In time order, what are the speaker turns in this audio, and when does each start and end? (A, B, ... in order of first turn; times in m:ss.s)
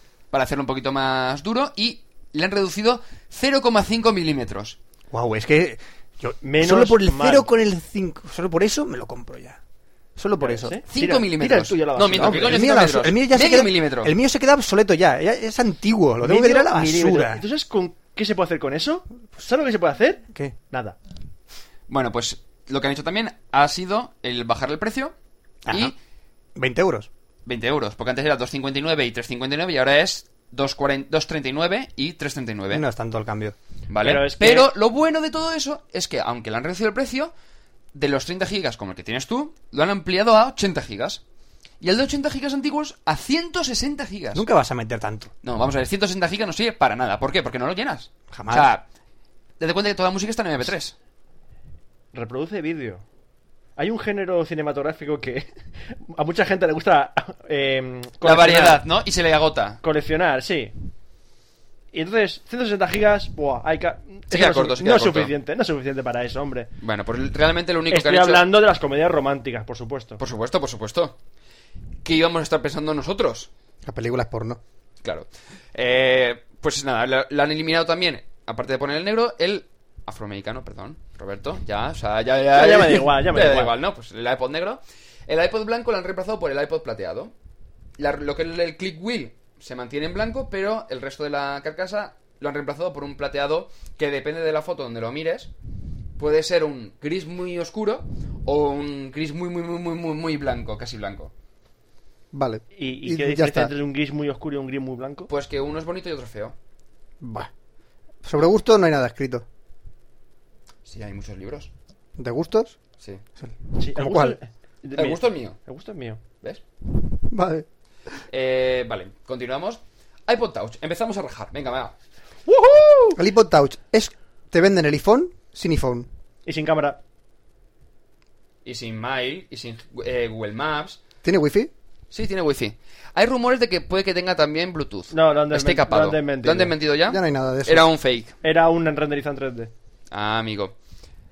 0:00.3-0:04.8 A
0:05.1-0:09.6 B
0:06.4-0:07.5 C
0:10.2-0:10.8 B
0:10.4-0:12.6 C
0:10.9-0:14.1 A
0:12.4-0:17.4 B
0:16.2-0:21.0 C
0:21.9-0:25.1 A
0:25.7-0:26.0 A
0:26.6-0:27.1 B
0:27.5-0:32.8 A
0:32.7-0:33.6 B
0:33.9-0:37.3 A
0:34.0-0:34.7 C
0:37.9-0:41.2 A
0:41.8-0:44.4 A
0:44.4-0:45.3 B
0:45.4-0:48.8 A
0:48.3-0:48.6 B
0:49.6-0:51.0 A
0:52.1-0:53.0 C
0:53.8-0:58.8 C
0:58.2-0:59.8 A
0:59.8-1:00.7 C
1:01.9-1:06.7 C
1:04.3-1:05.3 A
1:06.8-1:08.4 A
1:07.9-1:10.2 C
1:10.2-1:11.2 A
1:12.0-1:13.5 A
1:13.9-1:14.6 B
1:15.0-1:27.3 A
1:22.6-1:23.7 C
1:28.0-1:35.5 A
1:36.2-1:41.3 A
1:42.3-1:43.7 B
1:42.7-1:45.3 C
1:45.3-1:46.6 A
1:47.2-1:47.5 B
1:48.2-1:49.4 B
1:50.9-1:51.7 A
1:52.2-1:52.8 B
1:53.4-1:54.4 B
1:53.8-1:56.2 C
1:55.0-1:55.6 A
1:57.3-1:57.6 B
1:58.3-2:01.9 A
2:02.5-2:03.2 C
2:03.2-2:06.1 B
2:06.5-2:07.0 C
2:08.6-2:11.0 A
2:11.2-2:11.7 B
2:12.1-2:18.4 A
2:15.1-2:16.7 C
2:17.1-2:17.8 B
2:18.4-2:19.7 C
2:20.1-2:20.7 A